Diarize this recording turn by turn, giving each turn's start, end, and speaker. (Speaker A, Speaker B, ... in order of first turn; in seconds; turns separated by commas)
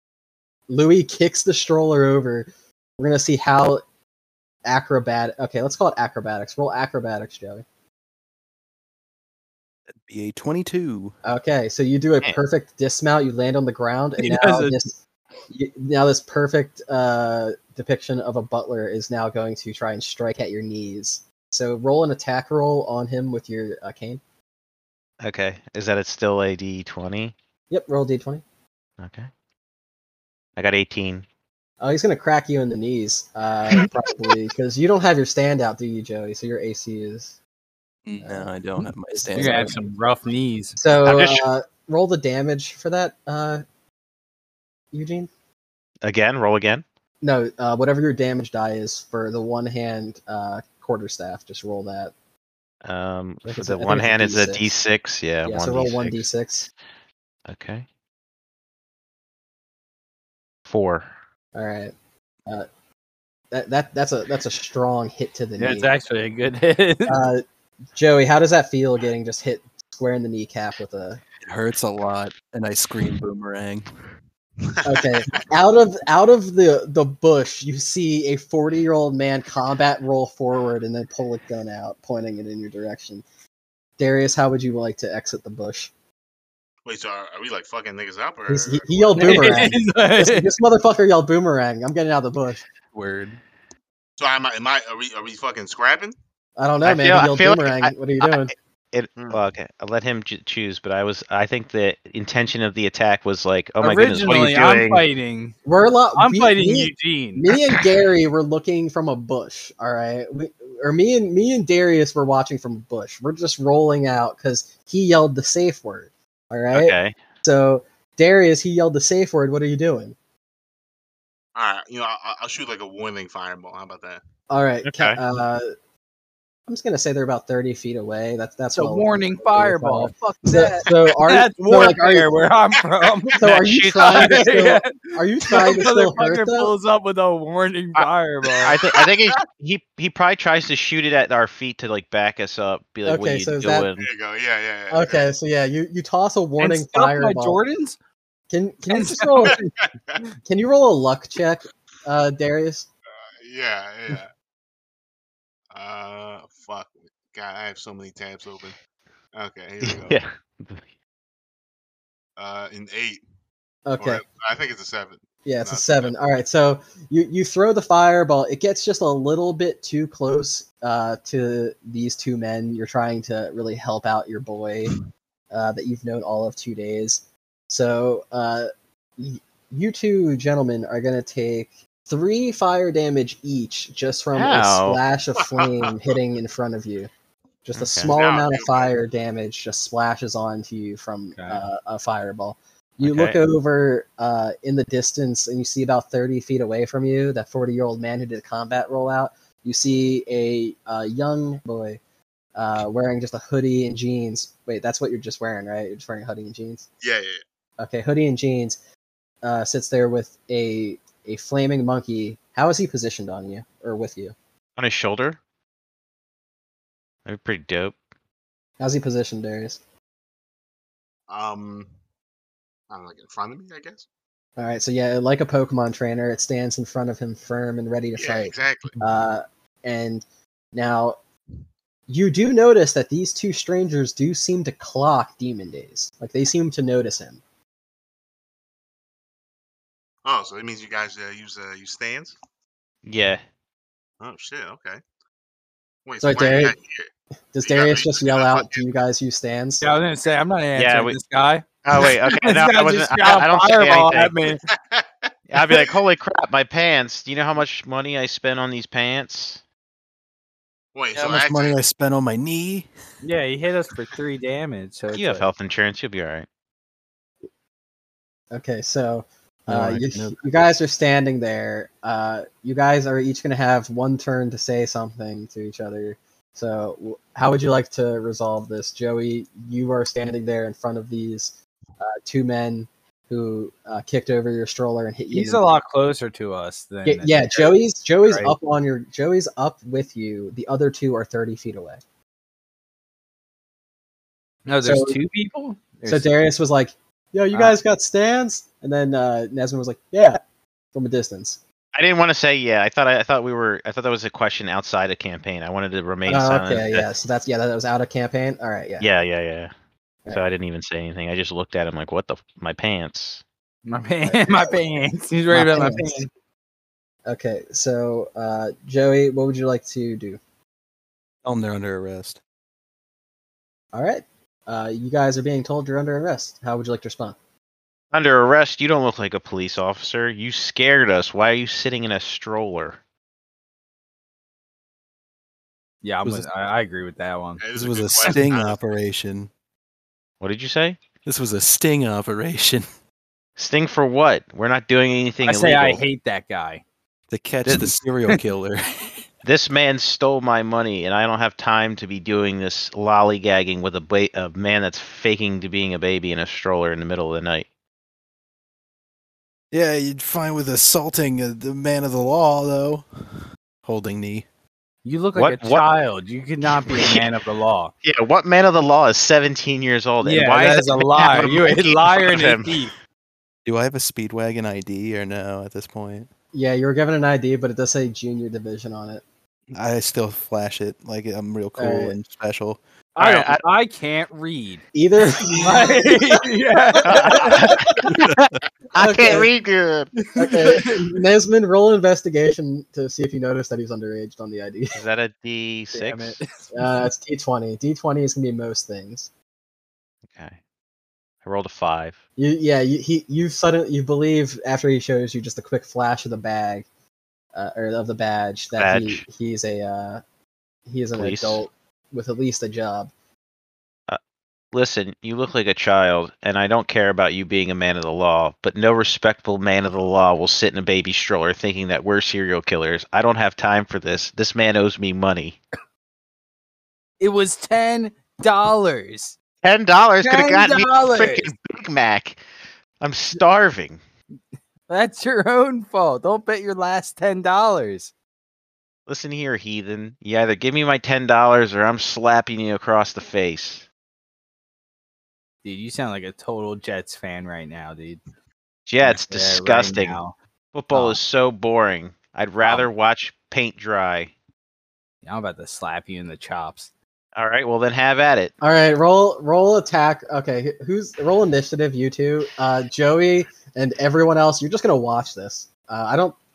Speaker A: 0.7-2.5, Speaker A: 3.0-3.8, Speaker A: 4.6-7.6, Speaker B: 10.0-11.1, Speaker A: 11.2-15.0, Speaker C: 14.2-14.8, Speaker A: 15.5-24.2, Speaker D: 25.2-27.4, Speaker A: 27.7-28.4, Speaker D: 29.0-29.3, Speaker D: 30.6-31.3, Speaker A: 31.8-37.4, Speaker B: 38.1-39.8, Speaker A: 38.2-38.5, Speaker A: 39.1-39.8, Speaker C: 39.3-40.8, Speaker A: 40.8-43.6, Speaker D: 41.0-41.5, Speaker A: 44.9-45.3, Speaker D: 46.0-46.9, Speaker A: 47.2-52.1, Speaker D: 52.8-56.2, Speaker A: 53.5-54.7, Speaker A: 55.4-56.7, Speaker D: 57.5-57.9, Speaker D: 60.7-61.1, Speaker A: 61.5-61.9, Speaker A: 63.5-65.9, Speaker C: 65.6-67.2, Speaker A: 67.1-67.4, Speaker A: 67.9-71.2, Speaker B: 71.5-73.9, Speaker E: 74.6-75.4, Speaker A: 74.8-83.2, Speaker A: 84.0-85.9, Speaker E: 86.9-89.7, Speaker A: 88.5-92.6, Speaker C: 89.2-90.5, Speaker B: 92.9-93.4, Speaker E: 94.2-96.1, Speaker A: 96.6-98.5, Speaker D: 96.8-98.3, Speaker D: 98.9-105.0, Speaker E: 99.2-99.5, Speaker C: 103.8-105.6, Speaker A: 105.7-120.2, Speaker C: 106.2-107.5, Speaker D: 116.7-117.2, Speaker E: 121.5-124.2, Speaker A: 124.5-125.7, Speaker D: 124.8-125.2, Speaker A: 126.7-132.3, Speaker C: 128.7-138.8, Speaker A: 133.4-136.7, Speaker D: 133.4-134.3, Speaker D: 138.6-144.1, Speaker E: 138.6-139.3, Speaker A: 143.1-143.9, Speaker E: 144.0-145.3, Speaker A: 144.9-147.6, Speaker C: 146.6-148.0, Speaker A: 148.5-149.6, Speaker C: 148.9-149.7, Speaker E: 149.4-150.2, Speaker A: 150.5-152.9, Speaker E: 153.4-154.3, Speaker E: 155.7-158.8, Speaker E: 159.3-160.2, Speaker D: 159.8-160.8, Speaker E: 162.4-163.2, Speaker A: 163.9-164.2, Speaker E: 164.0-166.1, Speaker A: 165.4-175.0, Speaker A: 175.5-187.1, Speaker D: 184.3-185.0, Speaker E: 185.6-185.9, Speaker A: 187.6-202.0, Speaker D: 187.8-188.1, Speaker E: 188.1-188.9, Speaker C: 191.4-191.6, Speaker D: 193.0-193.4, Speaker A: 202.6-206.9, Speaker E: 207.0-207.4, Speaker A: 207.8-208.8, Speaker A: 209.4-214.3, Speaker D: 214.8-215.4, Speaker D: 217.3-218.0, Speaker A: 218.8-219.8, Speaker E: 221.3-221.9, Speaker E: 222.9-224.1, Speaker A: 224.6-231.2, Speaker E: 228.2-229.0, Speaker A: 232.1-237.4, Speaker E: 240.2-242.4, Speaker D: 243.1-243.4, Speaker E: 244.2-245.0, Speaker E: 246.1-247.1, Speaker A: 246.2-246.8, Speaker A: 247.5-249.9, Speaker E: 247.6-248.8, Speaker C: 249.8-254.6, Speaker D: 250.8-251.2, Speaker D: 251.8-254.4, Speaker E: 254.7-255.9, Speaker D: 255.5-259.6, Speaker E: 260.9-261.8, Speaker B: 261.1-262.9, Speaker C: 263.2-265.5, Speaker D: 265.1-266.5, Speaker A: 268.5-285.6, Speaker B: 269.7-270.6, Speaker C: 285.3-288.6, Speaker A: 287.1-292.0, Speaker C: 294.7-296.3, Speaker A: 294.8-295.2, Speaker A: 296.1-300.4, Speaker A: 300.9-301.6, Speaker D: 301.9-307.1, Speaker A: 306.3-309.1, Speaker D: 309.0-309.7, Speaker D: 310.3-313.4, Speaker C: 313.9-316.3, Speaker A: 314.2-314.7, Speaker A: 315.5-316.2, Speaker A: 317.3-320.4, Speaker B: 321.4-322.4, Speaker A: 323.9-327.4, Speaker D: 328.1-333.0, Speaker C: 336.0-337.6, Speaker E: 337.6-338.9, Speaker B: 337.7-339.5, Speaker D: 340.4-341.0, Speaker B: 341.2-342.9, Speaker D: 343.6-346.0, Speaker C: 345.4-346.8, Speaker B: 347.3-349.1, Speaker C: 347.6-348.4, Speaker D: 349.4-357.6, Speaker B: 359.7-364.5, Speaker C: 365.0-367.9, Speaker D: 365.4-365.9, Speaker D: 366.6-367.2, Speaker D: 368.0-372.8, Speaker C: 370.2-372.9, Speaker B: 373.6-376.3, Speaker A: 376.5-379.2, Speaker B: 379.7-382.8, Speaker A: 381.8-382.1, Speaker C: 383.1-384.8, Speaker D: 383.2-383.6, Speaker A: 384.9-386.4, Speaker C: 385.6-388.0, Speaker A: 386.9-387.9, Speaker D: 387.0-390.1, Speaker A: 389.0-389.5, Speaker C: 390.1-391.2, Speaker A: 390.4-395.0, Speaker D: 394.9-396.4, Speaker C: 395.9-396.9, Speaker A: 396.7-399.3, Speaker D: 400.3-400.6, Speaker D: 401.4-402.2, Speaker A: 402.4-406.9, Speaker A: 407.5-410.2, Speaker D: 408.8-409.2, Speaker A: 410.9-413.1, Speaker D: 411.1-411.6, Speaker D: 414.7-425.6, Speaker C: 427.2-429.4, Speaker D: 429.6-432.4, Speaker C: 430.2-431.5, Speaker D: 433.0-434.0, Speaker C: 434.9-438.1, Speaker D: 439.1-443.9, Speaker C: 445.6-448.2, Speaker D: 448.9-450.2, Speaker C: 449.0-450.4, Speaker D: 450.7-454.3, Speaker C: 450.9-451.2, Speaker C: 452.6-452.9, Speaker C: 455.2-456.9, Speaker D: 457.4-458.5, Speaker A: 458.6-466.4